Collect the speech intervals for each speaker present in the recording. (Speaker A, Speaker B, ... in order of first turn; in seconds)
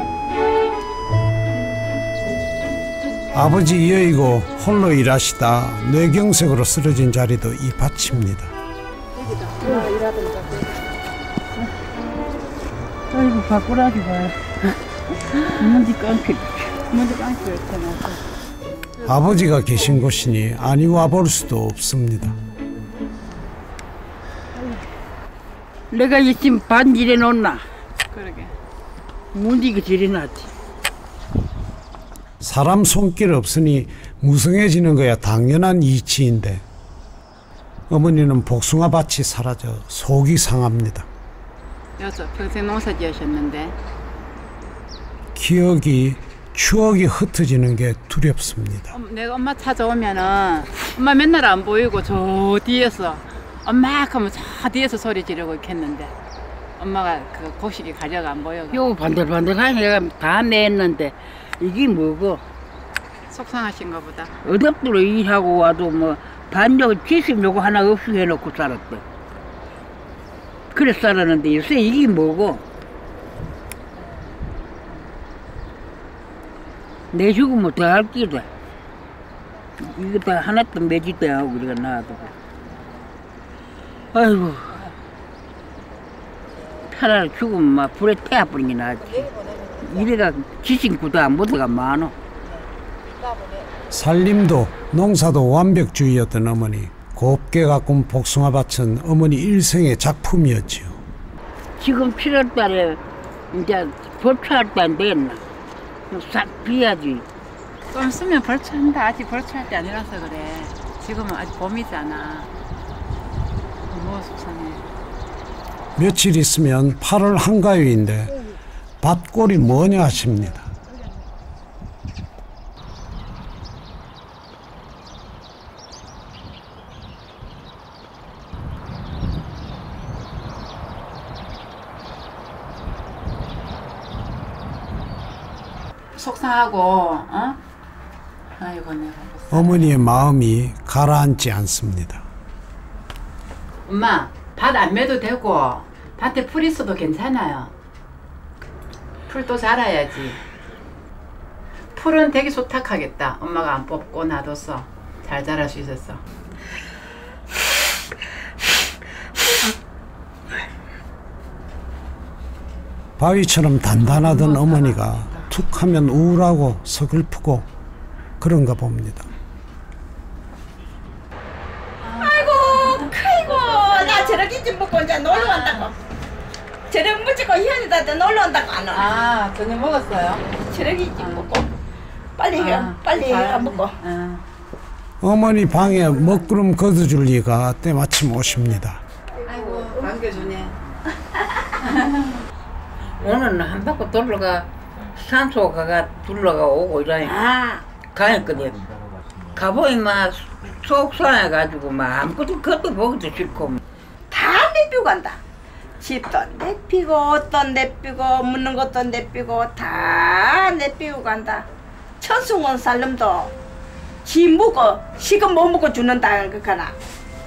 Speaker A: 3.3-8.5, 19.0-22.4, 32.4-36.6, 37.9-41.1, 45.4-49.0, 93.9-101.0, 116.0-118.4, 119.0-120.7, 139.5-142.3, 163.2-167.7, 168.4-169.3, 185.2-189.0
Speaker B: 9.5-9.9, 16.9-18.2, 28.1-28.5, 42.0-43.8, 48.9-56.1, 56.8-58.8, 63.3-64.3, 107.9-112.5, 113.9-114.9, 136.2-137.6, 138.6-140.0, 143.9-147.7, 149.3-150.4, 151.9-156.2, 164.0-165.5, 172.0-174.5, 175.3-175.9, 178.9-180.6, 181.2-181.5, 182.6-184.4, 189.4-190.8, 191.8-192.4
Speaker C: 13.1-14.6, 15.5-16.9, 25.9-27.6, 29.3-30.5, 58.7-62.4, 64.4-69.0, 70.7-72.6, 77.1-78.5, 79.8-82.3, 84.1-84.8, 86.9-92.1, 101.8-103.0, 103.5-105.4, 106.1-107.2, 193.2-198.9, 199.5-203.8
Speaker D: 172.2-175.9, 176.9-179.1, 180.7-181.7, 182.4-184.0, 204.3-205.4, 206.0-211.7, 212.2-213.5, 214.2-216.9